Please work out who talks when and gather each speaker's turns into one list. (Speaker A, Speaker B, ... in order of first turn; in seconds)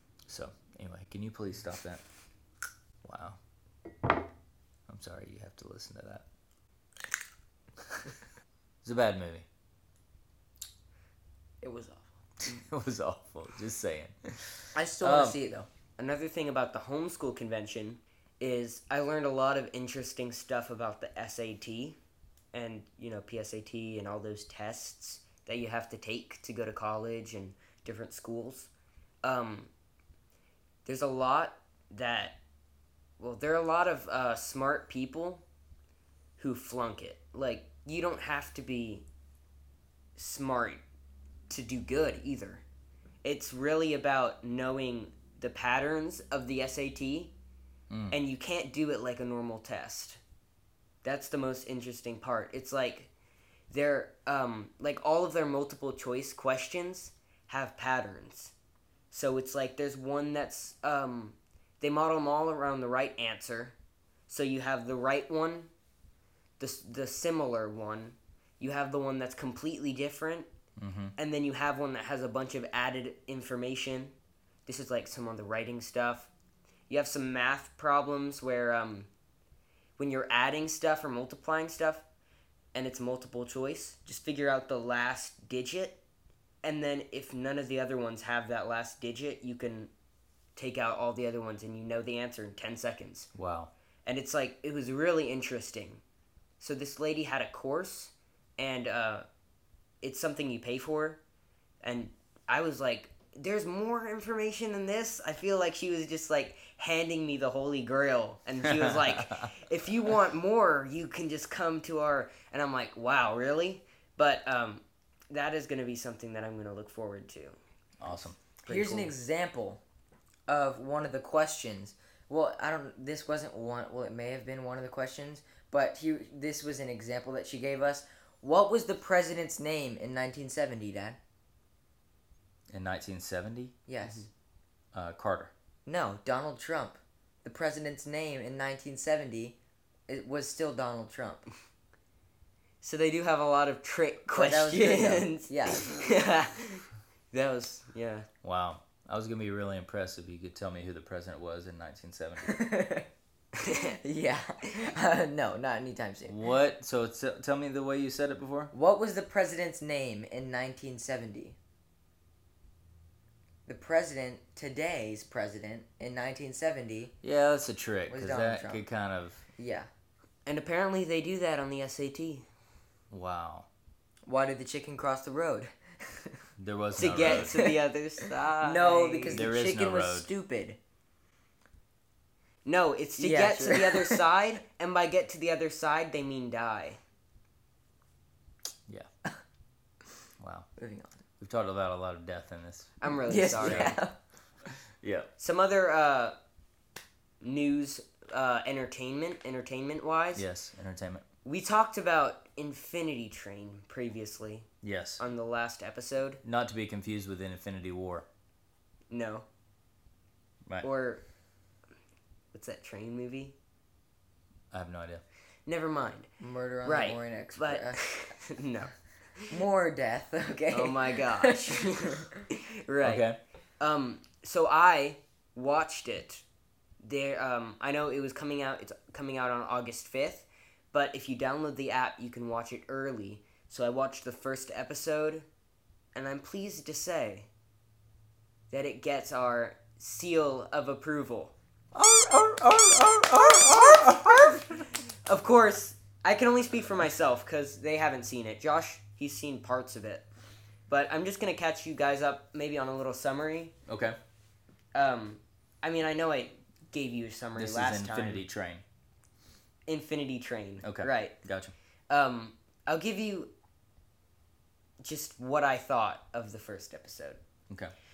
Speaker A: 0.3-2.0, 3.0-3.4, 4.9-6.2, 7.9-8.1, 8.8-9.4, 12.4-15.4, 47.9-48.1, 70.8-71.1, 93.3-93.7, 108.7-109.4, 118.0-118.5, 132.7-133.7, 134.9-135.5, 148.4-152.7, 156.3-158.7, 167.2-169.4, 173.1-173.7, 176.6-177.6, 179.3-180.3, 190.4-190.7, 191.4-193.0, 193.5-193.9, 195.0-195.3, 200.3-201.2, 204.8-205.2, 206.4-208.2, 214.7-215.2, 223.0-223.4, 241.9-244.9, 253.9-254.2, 257.6-258.8, 260.8-261.7
Speaker B: 11.6-12.2, 14.7-15.7, 118.7-119.8, 120.5-131.2, 133.9-134.3, 135.8-139.6, 140.1-141.4, 144.3-146.0, 152.4-153.1, 154.0-156.4, 158.7-161.6, 163.7-167.1, 168.1-168.8, 169.6-169.9, 174.2-176.4, 177.2-177.7, 178.6-180.8, 183.2-184.2, 190.8-191.2, 193.3-194.1, 216.4-218.1, 219.5-222.3
Speaker C: 16.0-22.0, 22.5-28.7, 29.2-29.7, 30.8-32.4, 33.2-35.4, 36.4-39.0, 40.2-40.8, 41.5-42.6, 43.2-47.3, 48.1-50.2, 51.0-53.1, 53.7-58.5, 59.1-63.7, 64.3-65.7, 66.6-70.5, 71.2-74.1, 74.7-76.3, 76.9-79.1, 80.0-82.0, 82.7-86.0, 86.6-89.9, 90.5-93.3, 94.0-96.0, 96.6-99.2, 100.0-101.2, 101.8-117.6, 118.6-119.1, 142.8-148.3, 153.6-154.0, 170.4-172.4, 177.0-179.4, 182.6-187.0, 193.0-194.0, 195.4-196.3, 197.4-200.4, 201.4-204.7, 205.2-206.4, 209.1-209.4, 210.8-211.2, 212.5-213.5, 215.7-216.3, 216.8-219.6, 220.7-223.2, 223.8-226.4, 227.0-235.4, 236.1-237.5, 238.7-241.5, 243.8-250.2, 250.9-253.7, 254.9-258.4, 259.9-261.3, 262.1-263.5, 265.0-267.4